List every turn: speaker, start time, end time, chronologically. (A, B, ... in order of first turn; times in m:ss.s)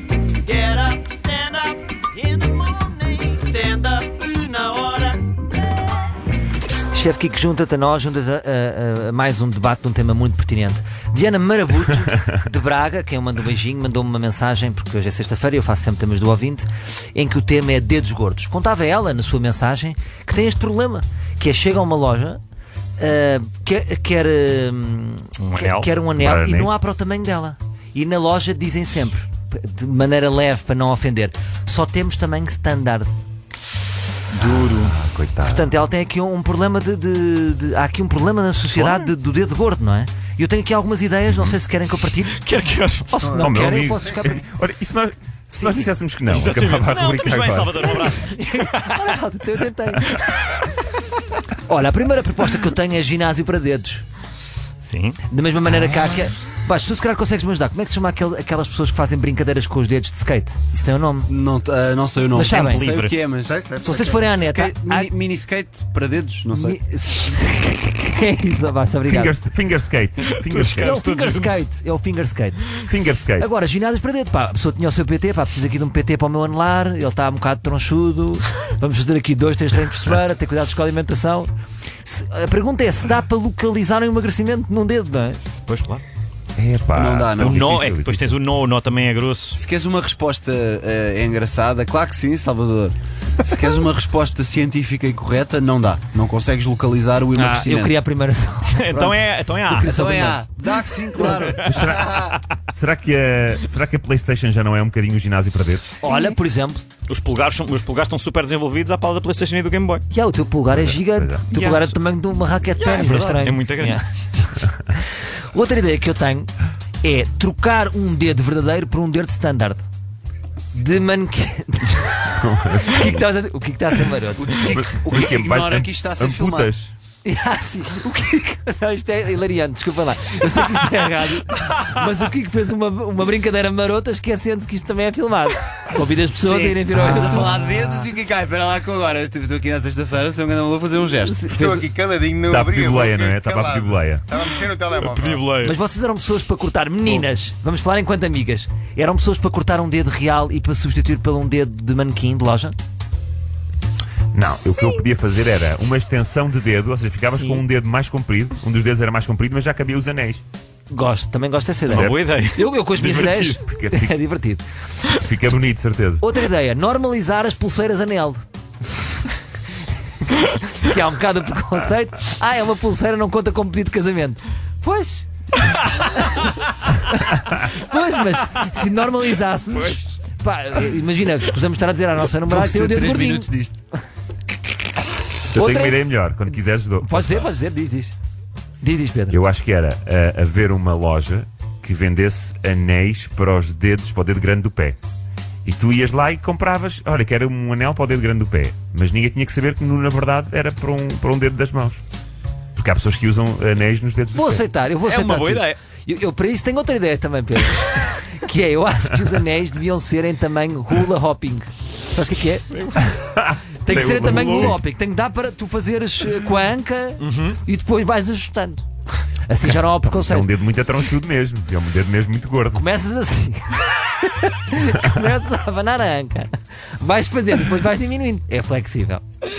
0:00.4-0:05.3 A
0:06.9-0:22.4 B
0:23.0-0:33.2 B
0:25.4-0:25.9 A
0:26.2-0:26.7 C
0:34.3-0:35.7 C
0:35.5-0:42.4 B
0:38.8-0:39.1 A
0:41.3-0:41.6 C
0:42.4-0:43.1 A
0:43.1-0:44.4 B
0:43.3-0:47.9 C
0:45.6-0:45.9 B
0:46.3-0:49.2 A
0:47.8-0:50.6 B
0:51.5-0:54.0 B
0:54.8-0:55.2 A
0:55.3-1:01.3 B
1:01.3-1:06.8 D
1:02.3-1:02.9 B
1:02.5-1:03.2 A
1:03.5-1:03.9 E
1:03.8-1:05.1 B
1:06.5-1:09.4 B
1:09.1-1:11.0 C
1:10.2-1:11.6 A
1:10.8-1:12.7 B
1:12.8-1:13.5 C
1:13.4-1:25.4 B
1:25.7-1:26.0 A
1:26.6-1:28.4 C
1:26.9-1:27.9 D
1:27.4-1:29.6 A
1:29.6-1:38.0 D
1:37.4-1:39.0 B
1:38.7-1:40.0 A
1:38.9-1:42.3 D
1:39.7-1:40.5 B
1:41.2-1:42.4 A
1:41.6-1:45.9 C
1:46.0-1:46.8 B
1:47.1-1:50.0 A
1:50.1-1:54.0 B
1:50.7-1:51.4 C
1:51.5-1:51.9 A
1:52.7-1:54.0 A
1:55.2-1:56.5 B
1:57.0-1:59.8 B
2:00.7-2:04.5 B
2:02.3-2:03.2 C
2:04.4-2:06.7 D
2:04.6-2:06.9 C
2:07.2-2:17.6 B
2:16.4-2:21.8 D
2:21.2-2:21.9 B
2:21.6-2:25.5 E
2:22.5-2:24.3 C
2:24.9-2:25.8 A
2:25.6-2:32.8 B
2:34.3-2:40.4 C
2:40.9-2:44.6 B
2:41.9-2:43.6 A
2:41.9-2:42.3 C
2:43.6-2:44.2 C
2:45.2-2:46.2 C
2:46.2-2:48.4 B
2:50.2-3:03.5 B
3:02.5-3:03.8 D
3:05.5-3:07.5 C
3:05.5-3:08.1 B
3:08.8-3:09.4 B
3:09.3-3:15.0 C
3:15.6-3:22.0 C
3:22.8-3:24.7 C
3:24.3-3:32.7 B
3:25.0-3:25.8 A
3:32.7-3:33.2 A
3:33.1-3:34.8 C
3:33.8-3:38.8 B
3:33.9-3:34.8 A
3:37.2-3:37.6 A
3:39.5-3:40.6 B
3:40.0-3:42.9 C
3:42.8-3:49.2 B